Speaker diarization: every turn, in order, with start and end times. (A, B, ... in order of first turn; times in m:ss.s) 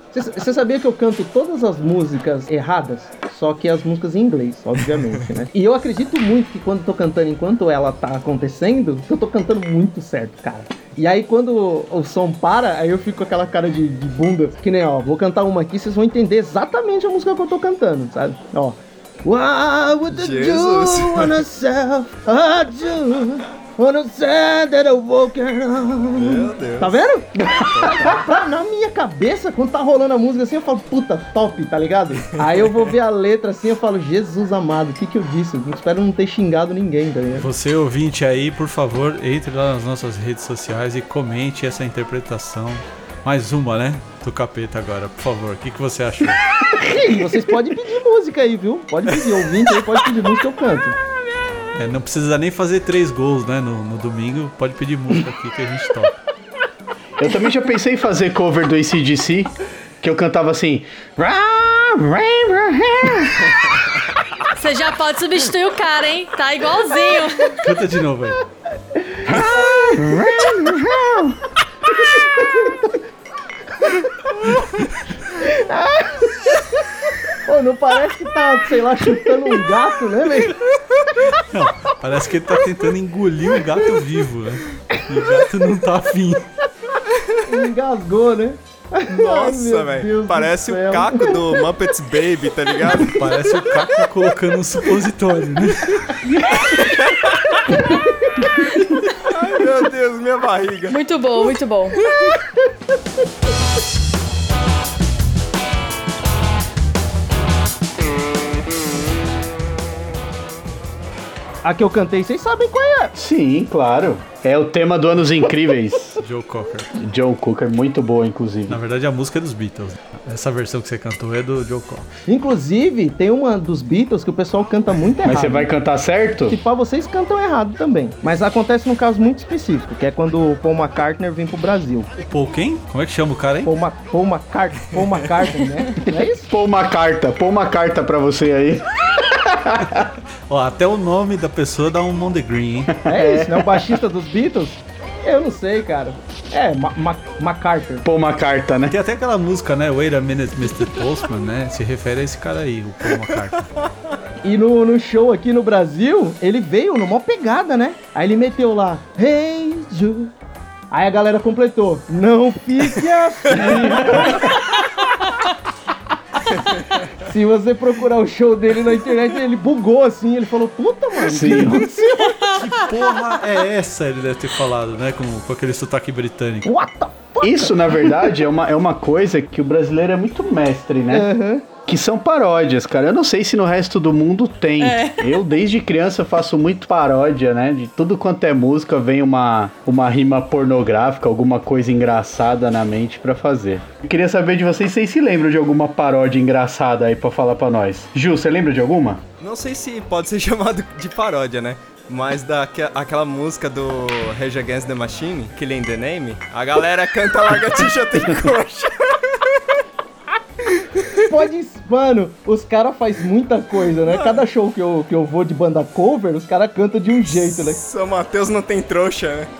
0:00.1-0:37.5 A
0:20.1-0:21.4 B
0:26.1-0:27.0 B
0:27.4-0:28.1 C
0:27.7-0:28.2 B
0:37.3-0:46.4 D
0:46.8-0:51.0 A
0:51.7-0:56.2 D
0:57.2-1:03.6 C
1:04.6-1:07.6 E
1:07.6-1:08.4 D
1:09.0-1:10.0 A
1:09.2-1:11.4 C
1:12.3-1:13.0 A
1:15.3-1:20.6 A
1:21.4-1:26.4 D
1:27.5-1:31.6 A
1:29.1-1:33.3 B
1:33.1-1:36.2 D
1:36.7-1:37.6 B
1:39.2-1:41.0 B
1:40.9-1:42.0 E
1:51.6-1:53.1 A
1:53.1-1:56.2 C
1:56.2-1:56.9 D
1:57.0-1:58.8 C
1:58.7-2:02.1 D
2:02.3-2:05.7 A
2:05.2-2:06.6 C
2:06.5-2:12.1 A
2:12.2-2:13.7 D
2:13.6-2:16.5 A
2:16.5-2:20.1 C
2:20.5-2:23.0 D
2:22.9-2:24.0 C
2:23.0-2:28.0 A
2:28.0-2:29.0 C
2:28.9-2:33.7 D
2:34.4-2:40.3 A
2:40.9-2:44.6 A
2:43.6-2:44.5 C
2:47.2-2:52.5 A
2:51.2-2:51.9 C
2:52.1-2:52.9 E
2:52.4-2:56.7 D
2:56.6-2:58.3 A
2:57.4-3:01.3 C
3:01.1-3:01.7 A
3:01.8-3:19.2 C
3:04.8-3:05.4 E
3:19.4-3:29.6 B
3:30.7-3:31.2 B
3:31.2-3:37.8 A
3:34.0-3:34.4 B
3:37.3-3:39.5 B